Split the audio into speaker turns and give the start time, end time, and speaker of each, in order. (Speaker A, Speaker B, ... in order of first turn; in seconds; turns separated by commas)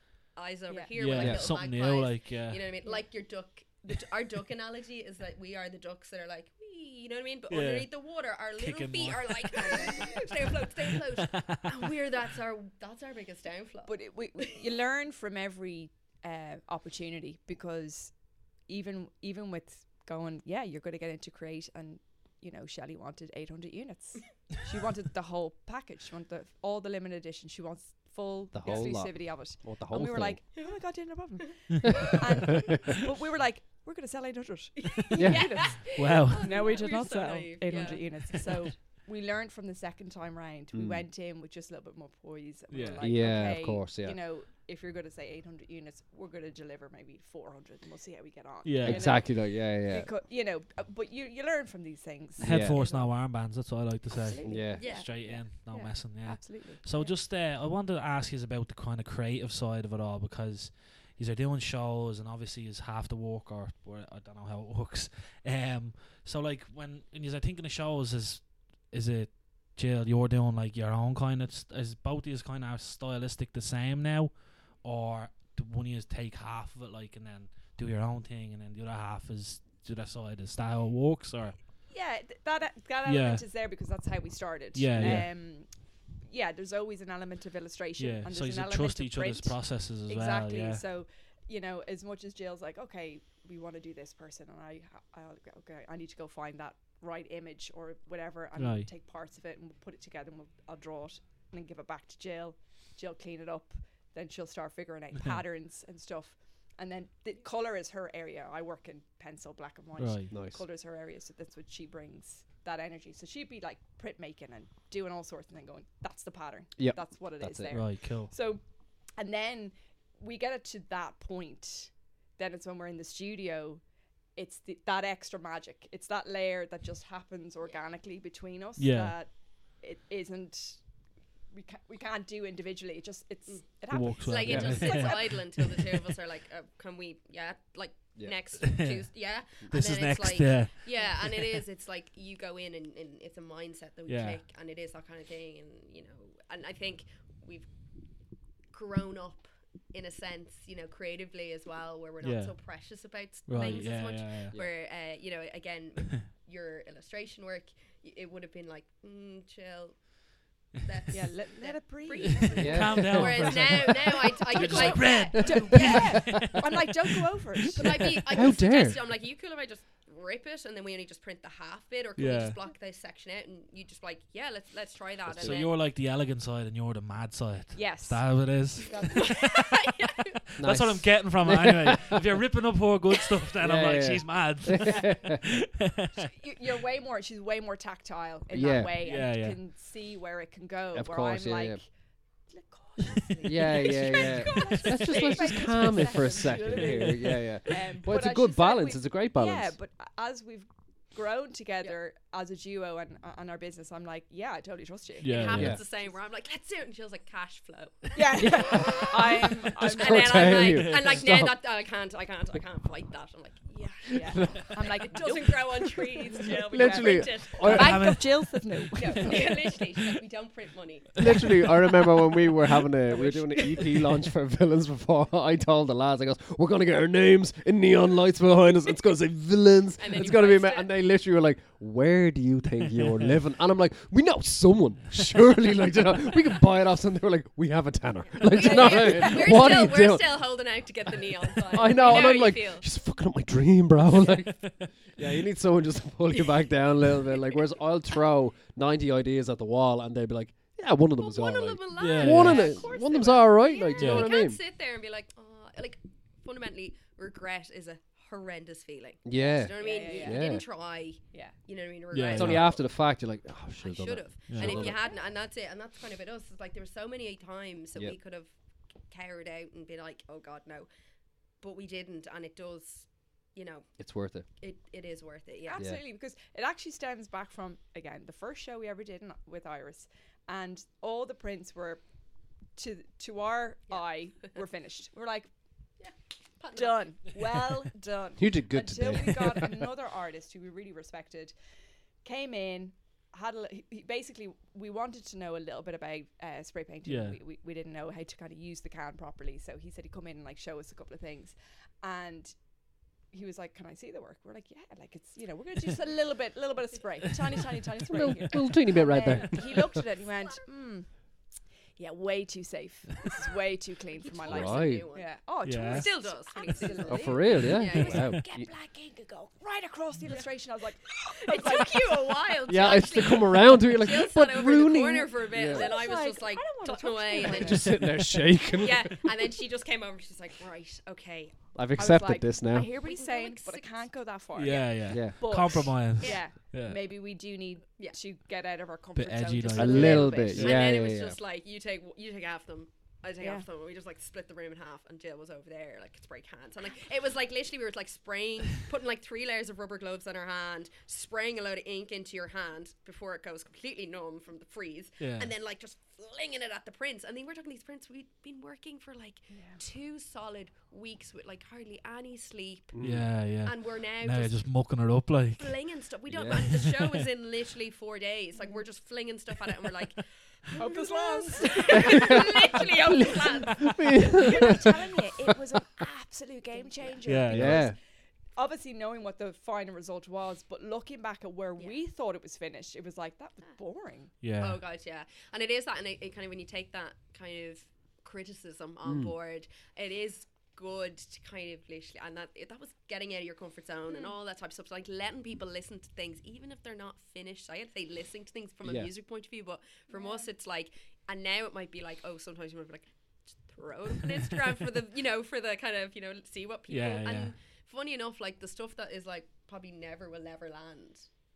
Speaker A: 0.3-14.5, Speaker B: 0.9-2.7, Speaker C: 1.1-1.5, Speaker B: 7.5-10.2, Speaker B: 10.9-11.9, Speaker D: 13.8-53.2, Speaker C: 28.5-30.4, Speaker A: 30.6-30.8, Speaker A: 34.8-38.7, Speaker C: 35.1-35.8, Speaker B: 35.7-36.7, Speaker C: 40.7-41.0, Speaker B: 42.7-43.1, Speaker C: 43.0-44.2, Speaker B: 48.6-49.1, Speaker C: 48.8-50.1, Speaker B: 52.4-81.6, Speaker C: 52.4-52.8, Speaker D: 54.1-57.1, Speaker C: 54.4-54.9, Speaker A: 54.7-55.3, Speaker D: 81.9-123.8, Speaker B: 83.0-83.4, Speaker B: 84.7-85.3, Speaker C: 84.9-85.3, Speaker B: 88.0-90.8, Speaker B: 98.6-98.9, Speaker B: 110.0-110.3, Speaker C: 110.3-110.6, Speaker C: 116.8-117.7, Speaker B: 117.7-118.3, Speaker D: 124.3-130.9, Speaker B: 128.8-129.1, Speaker D: 131.5-135.4, Speaker B: 133.9-136.0, Speaker A: 134.2-147.7, Speaker C: 134.5-134.8, Speaker B: 138.6-141.6, Speaker B: 144.1-144.4, Speaker A: 148.7-166.2, Speaker B: 152.2-154.6, Speaker C: 154.5-154.8, Speaker D: 161.1-163.2, Speaker B: 162.2-166.6, Speaker C: 162.6-163.8, Speaker D: 164.4-168.1, Speaker C: 165.3-166.4, Speaker A: 167.8-175.8, Speaker C: 167.8-169.0, Speaker B: 172.2-172.6, Speaker C: 175.2-175.6, Speaker B: 175.4-179.3, Speaker D: 177.7-179.3, Speaker A: 179.1-180.3, Speaker C: 180.6-182.2, Speaker B: 180.6-186.2, Speaker C: 183.6-185.4, Speaker D: 186.3-205.8, Speaker C: 188.5-189.0, Speaker B: 189.0-189.6, Speaker C: 190.9-191.8, Speaker A: 193.3-196.1, Speaker C: 193.4-199.7, Speaker B: 196.6-197.0, Speaker B: 205.2-205.8, Speaker A: 205.2-218.1, Speaker C: 205.5-205.8, Speaker D: 208.1-210.7, Speaker C: 208.4-209.2, Speaker C: 209.8-211.6, Speaker B: 210.6-211.2, Speaker D: 214.1-219.8, Speaker C: 216.7-218.2, Speaker B: 217.6-218.6, Speaker A: 218.9-221.4, Speaker C: 221.2-240.7, Speaker D: 223.1-223.9, Speaker A: 230.0-230.9, Speaker A: 238.2-242.8, Speaker D: 238.5-239.9, Speaker C: 241.7-254.6, Speaker D: 241.8-242.4, Speaker A: 246.3-247.6, Speaker A: 251.2-263.0, Speaker B: 251.9-252.8, Speaker D: 252.4-252.7, Speaker B: 253.9-254.3, Speaker C: 259.2-260.6, Speaker D: 259.8-260.8, Speaker D: 261.3-261.6, Speaker B: 262.1-262.7, Speaker C: 262.3-265.0, Speaker A: 263.8-270.9, Speaker B: 264.5-264.9, Speaker A: 271.5-274.0, Speaker C: 274.0-274.4, Speaker A: 274.5-275.8, Speaker D: 275.6-282.1, Speaker D: 282.7-285.5, Speaker A: 286.0-287.1, Speaker D: 286.7-291.5, Speaker C: 288.4-289.8, Speaker D: 292.2-302.7, Speaker B: 297.1-297.4, Speaker D: 303.3-322.5, Speaker C: 308.1-310.0, Speaker A: 314.3-318.4, Speaker C: 314.4-315.1, Speaker B: 315.6-316.1, Speaker C: 317.0-318.7, Speaker A: 321.4-328.1, Speaker C: 322.7-325.9, Speaker D: 325.7-328.2, Speaker C: 327.4-329.3, Speaker A: 328.7-331.6, Speaker C: 331.7-332.9, Speaker D: 331.9-340.6, Speaker A: 333.0-334.1, Speaker B: 334.5-337.0, Speaker C: 335.1-335.4, Speaker A: 336.2-336.4, Speaker B: 339.1-340.8, Speaker C: 339.7-341.4, Speaker A: 339.9-363.0, Speaker D: 343.4-343.6, Speaker B: 355.2-355.5, Speaker D: 359.5-359.8, Speaker C: 362.9-363.3, Speaker B: 363.0-365.8, Speaker A: 363.6-364.6, Speaker A: 365.6-374.8, Speaker C: 366.3-366.7, Speaker B: 366.5-367.3, Speaker D: 370.8-373.4, Speaker C: 372.0-372.4, Speaker C: 373.1-374.8, Speaker D: 374.2-378.0, Speaker A: 376.8-377.2, Speaker B: 377.2-377.9, Speaker C: 377.5-378.0, Speaker D: 378.5-384.3, Speaker B: 384.4-384.8, Speaker A: 384.6-411.3, Speaker C: 389.0-389.3, Speaker D: 394.1-394.3, Speaker C: 398.8-399.1, Speaker D: 400.1-400.5, Speaker B: 406.9-407.5